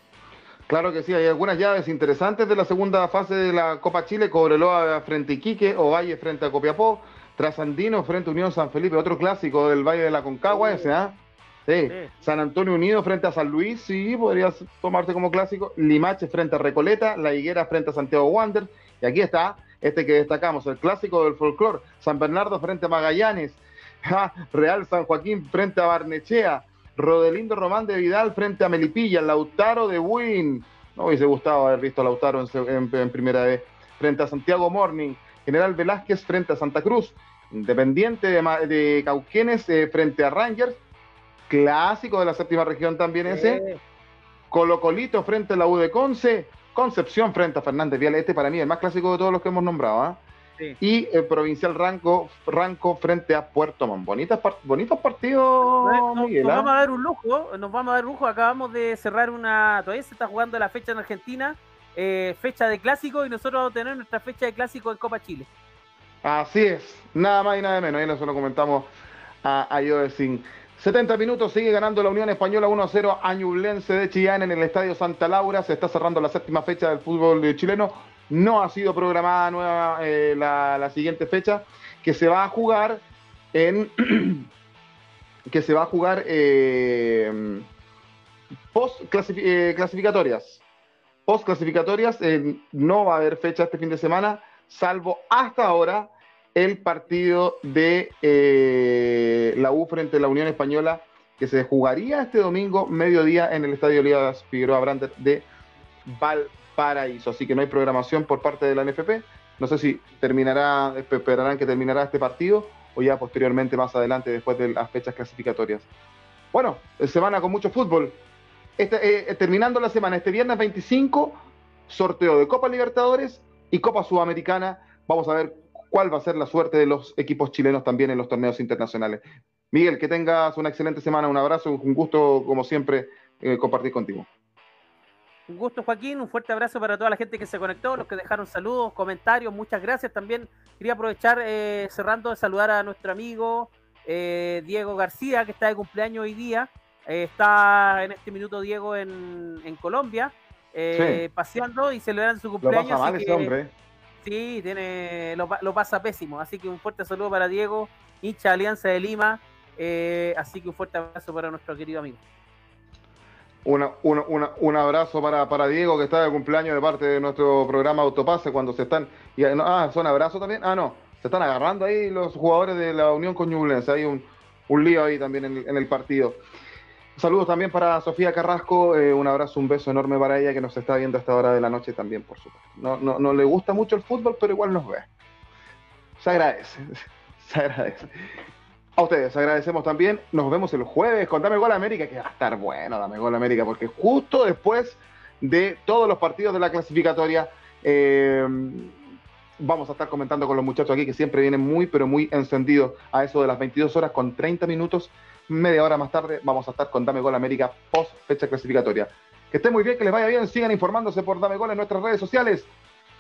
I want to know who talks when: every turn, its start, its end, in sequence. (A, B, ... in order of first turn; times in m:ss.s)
0:00.7-0:40.8 A
0:10.5-0:10.9 B
0:41.5-0:43.6 A
0:43.3-0:43.8 B
0:44.5-0:50.2 A
0:50.8-0:56.7 A
0:55.7-1:05.5 B
1:06.2-1:08.9 A
1:09.4-1:24.5 A
1:25.5-1:27.7 A
1:28.7-1:30.6 A
1:31.3-1:45.5 A
1:46.1-1:55.9 A
1:56.5-1:58.2 A
1:58.8-2:14.3 A
2:15.5-2:33.5 B
2:30.9-2:31.2 A
2:32.6-2:33.7 A
2:34.2-2:42.2 B
2:43.6-2:56.4 A
2:57.2-3:05.1 A
3:06.2-3:08.1 A
3:09.0-3:19.0 A
3:19.6-3:32.7 A